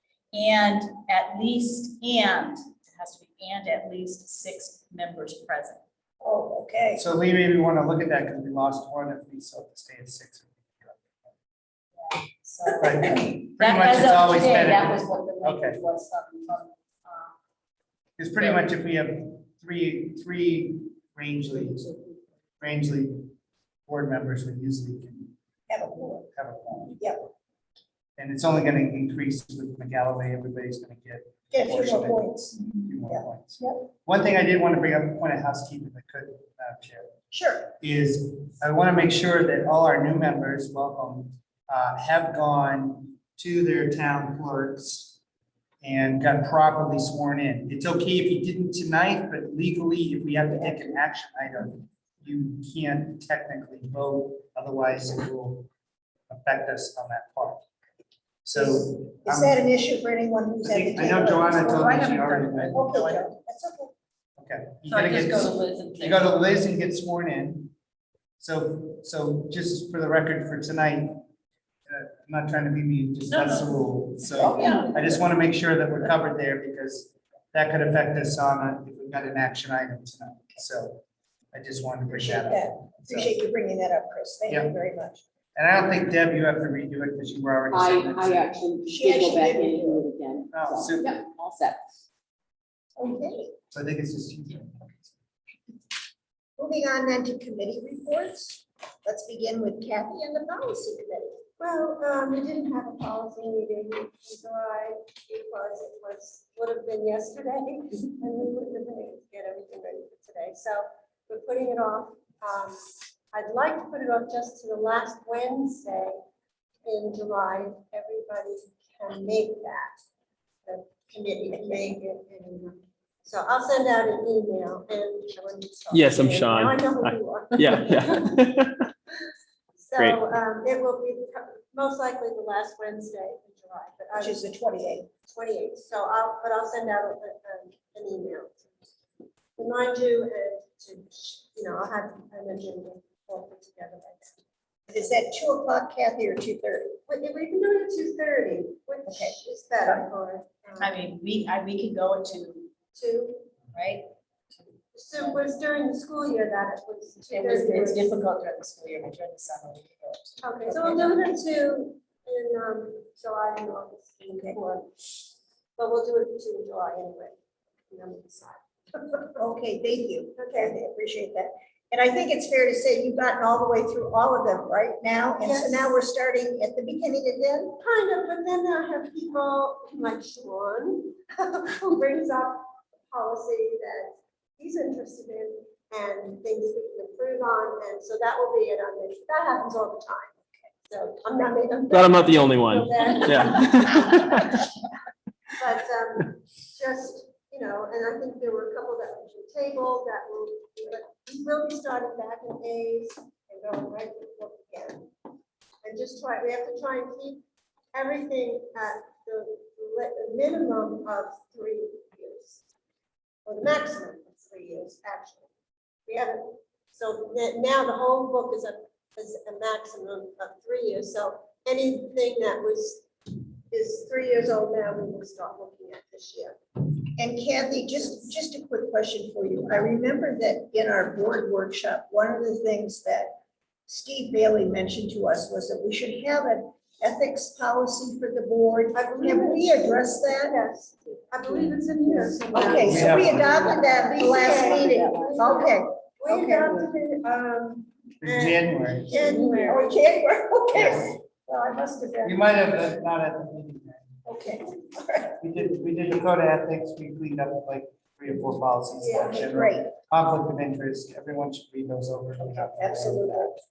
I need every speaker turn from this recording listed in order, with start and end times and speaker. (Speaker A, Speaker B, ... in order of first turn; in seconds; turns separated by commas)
Speaker A: 0.3-5.8, Speaker B: 6.2-7.0, Speaker C: 7.0-11.1, Speaker A: 11.9-17.3, Speaker C: 12.8-15.8, Speaker C: 18.2-21.9, Speaker A: 18.3-18.6, Speaker C: 22.6-23.3, Speaker C: 23.9-25.3, Speaker B: 25.7-26.3, Speaker C: 26.3-27.0, Speaker B: 27.0-27.2, Speaker C: 28.2-37.1, Speaker B: 31.5-33.8, Speaker B: 37.3-37.7, Speaker C: 37.8-45.2, Speaker C: 45.8-55.7, Speaker C: 56.3-57.6, Speaker C: 58.4-59.6, Speaker B: 58.5-63.9, Speaker C: 60.6-63.3, Speaker A: 62.3-62.7, Speaker C: 64.4-67.7, Speaker A: 64.9-66.3, Speaker C: 68.4-71.2, Speaker C: 71.9-81.0, Speaker A: 73.3-73.7, Speaker B: 74.3-75.2, Speaker A: 74.4-74.9, Speaker C: 81.5-83.3, Speaker B: 82.1-85.2, Speaker C: 84.5-84.7, Speaker C: 85.5-88.6, Speaker D: 87.7-91.2, Speaker B: 88.9-90.0, Speaker C: 90.5-91.2, Speaker B: 93.0-93.5, Speaker C: 93.7-95.1, Speaker B: 96.6-101.4, Speaker E: 101.6-112.8, Speaker E: 113.3-116.2, Speaker E: 116.8-120.0, Speaker E: 120.7-128.4, Speaker F: 125.9-128.8, Speaker E: 129.8-134.4, Speaker B: 134.2-135.1, Speaker E: 135.3-138.6, Speaker E: 139.6-144.4, Speaker B: 144.9-146.9, Speaker E: 147.1-151.0, Speaker A: 149.1-149.3, Speaker A: 150.8-152.8, Speaker E: 152.9-153.5, Speaker A: 153.7-155.5, Speaker E: 154.9-158.1, Speaker A: 157.3-161.3, Speaker E: 160.4-165.1, Speaker B: 164.3-164.6, Speaker E: 165.8-167.3, Speaker E: 167.9-169.3, Speaker B: 169.4-177.8, Speaker E: 170.3-170.7, Speaker E: 175.4-176.0, Speaker E: 177.8-190.3, Speaker E: 190.9-193.8, Speaker F: 191.9-194.6, Speaker E: 195.6-205.1, Speaker E: 205.8-207.4, Speaker E: 207.9-212.6, Speaker E: 213.4-215.5, Speaker E: 216.1-226.6, Speaker B: 227.2-240.5, Speaker E: 238.9-249.9, Speaker B: 242.5-246.6, Speaker C: 242.8-243.8, Speaker D: 243.9-245.4, Speaker C: 248.2-249.2, Speaker B: 249.6-252.4, Speaker C: 250.7-251.1, Speaker C: 252.2-254.1, Speaker B: 254.2-255.4, Speaker C: 255.4-263.5, Speaker E: 259.0-259.4, Speaker B: 259.4-259.9, Speaker B: 262.4-263.6